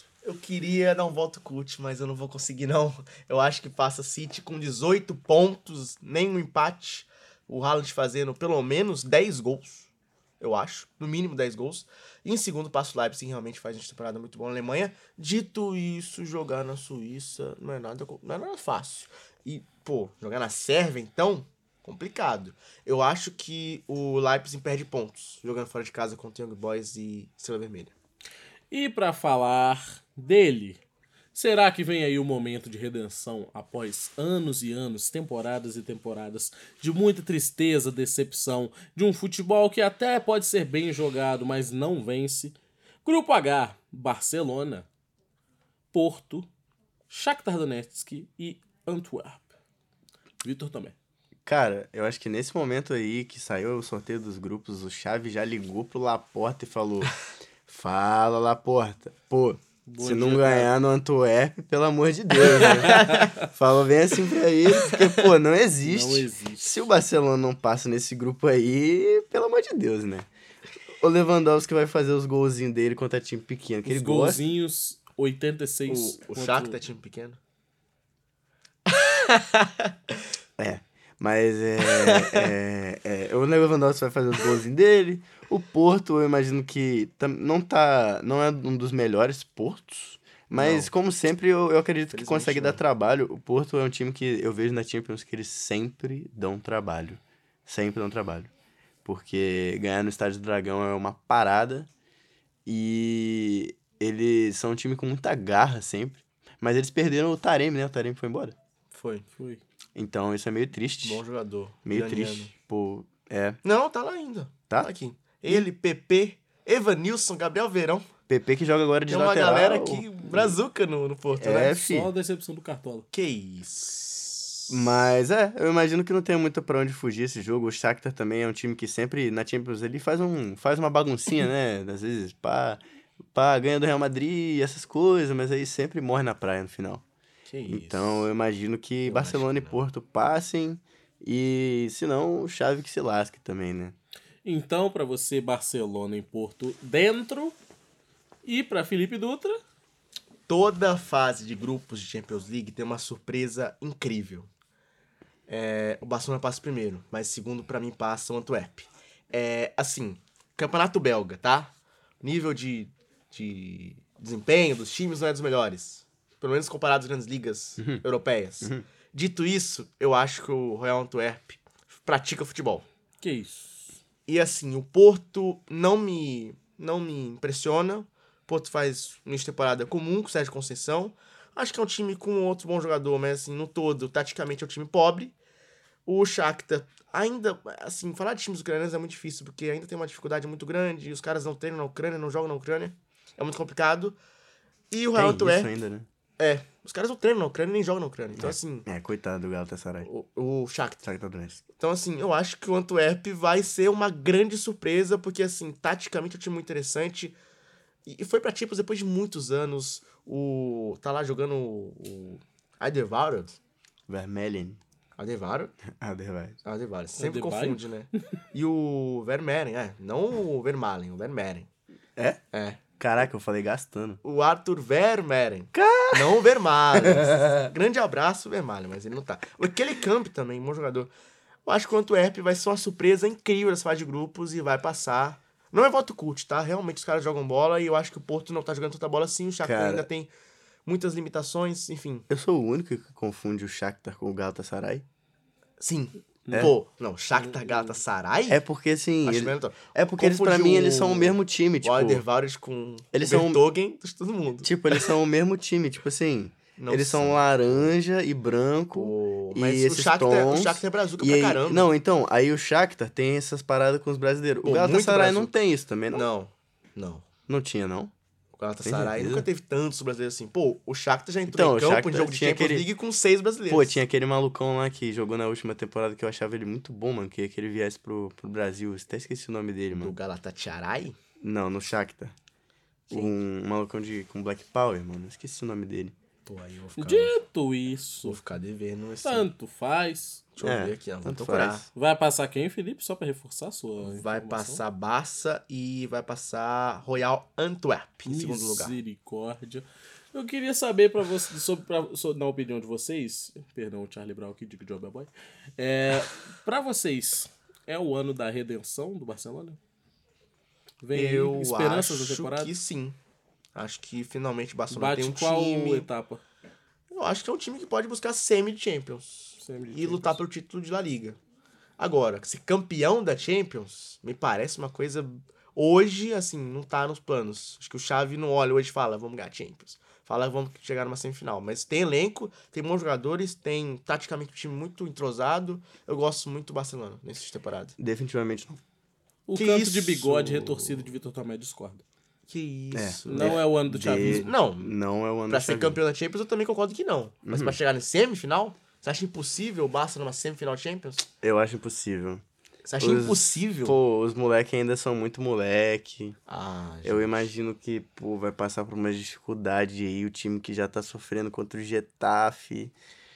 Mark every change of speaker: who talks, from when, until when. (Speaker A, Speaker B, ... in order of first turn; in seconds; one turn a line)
Speaker A: 0.2-9.9
Speaker A: 10.4-27.9
Speaker B: 28.7-30.8
Speaker B: 31.3-44.9
Speaker B: 45.9-46.5
Speaker B: 47.1-49.5
Speaker B: 50.4-51.0
Speaker C: 51.5-70.3
Speaker B: 59.9-60.7
Speaker A: 62.9-63.3
Speaker B: 62.9-63.3
Speaker A: 64.8-65.2
Speaker B: 65.8-66.7
Speaker C: 71.0-74.4
Speaker B: 73.8-76.8
Speaker A: 75.9-77.4
Speaker A: 78.9-79.9
Speaker C: 80.6-98.5
Speaker A: 81.8-82.5
Speaker A: 90.5-90.9
Speaker A: 92.1-92.8
Speaker C: 99.0-101.9
Speaker C: 102.7-108.6
Speaker A: 108.9-109.2
Speaker C: 110.0-111.2
Speaker A: 111.0-112.5
Speaker C: 111.8-113.6
Speaker A: 113.6-118.1
Speaker C: 118.3-120.6
Speaker A: 119.1-121.8
Speaker C: 121.3-122.1
Speaker B: 121.7-123.1
Speaker A: 123.1-124.8
Speaker C: 124.7-132.8
Speaker C: 133.3-137.0
Speaker A: 137.5-138.3
Speaker C: 137.7-144.0
Speaker A: 139.1-139.8
Speaker B: 144.4-147.6
Speaker B: 148.4-149.6
Speaker A: 150.5-154.5
Speaker A: 155.5-172.9
Speaker C: 167.8-168.0
Speaker B: 173.2-173.8
Speaker A: 174.3-185.3
Speaker A: 186.1-194.2
Speaker A: 194.9-195.7
Speaker C: 195.1-196.1
Speaker A: 196.4-198.9
Speaker C: 198.4-200.1
Speaker A: 200.0-201.0
Speaker C: 201.0-201.6
Speaker A: 201.8-207.4
Speaker A: 208.1-213.6
Speaker C: 214.1-214.8
Speaker A: 215.2-215.7
Speaker C: 215.9-216.6
Speaker A: 216.7-221.7
Speaker B: 217.2-217.8
Speaker C: 222.2-222.4
Speaker A: 222.5-222.8
Speaker C: 223.0-224.2
Speaker A: 224.2-231.1
Speaker C: 225.7-227.7
Speaker A: 231.7-240.3
Speaker C: 239.6-240.1
Speaker A: 240.9-242.3
Speaker C: 242.3-245.1
Speaker A: 245.8-248.6
Speaker B: 246.5-246.7
Speaker B: 247.7-247.9
Speaker C: 248.5-252.2
Speaker A: 249.2-255.1
Speaker C: 253.1-253.7
Speaker C: 254.6-266.3
Speaker A: 256.8-257.9
Speaker A: 258.9-261.9
Speaker A: 264.6-265.6
Speaker A: 266.1-267.2
Speaker C: 267.5-268.1
Speaker A: 268.6-274.0
Speaker C: 268.9-269.5
Speaker C: 271.5-272.9
Speaker C: 273.7-280.2
Speaker A: 280.0-281.2
Speaker C: 281.4-282.4
Speaker C: 283.1-286.1
Speaker A: 286.5-287.4
Speaker B: 287.0-288.4
Speaker A: 288.2-289.5
Speaker B: 289.2-290.5
Speaker A: 290.6-291.9
Speaker C: 290.6-291.9
Speaker B: 291.9-294.8
Speaker A: 294.0-299.0
Speaker B: 298.3-309.8
Speaker B: 311.0-312.7
Speaker A: 311.1-313.2
Speaker A: 313.8-316.1
Speaker B: 314.9-316.4
Speaker A: 317.1-321.4
Speaker B: 319.6-320.4
Speaker A: 322.0-338.0
Speaker C: 338.0-338.8
Speaker B: 339.5-342.0
Speaker A: 339.6-341.1
Speaker A: 342.5-344.9
Speaker C: 342.9-346.0
Speaker B: 343.3-344.5
Speaker A: 345.5-351.2
Speaker C: 347.4-347.8
Speaker C: 351.4-352.4
Speaker A: 352.9-354.0
Speaker C: 353.0-356.4
Speaker A: 356.5-357.5
Speaker C: 357.0-362.9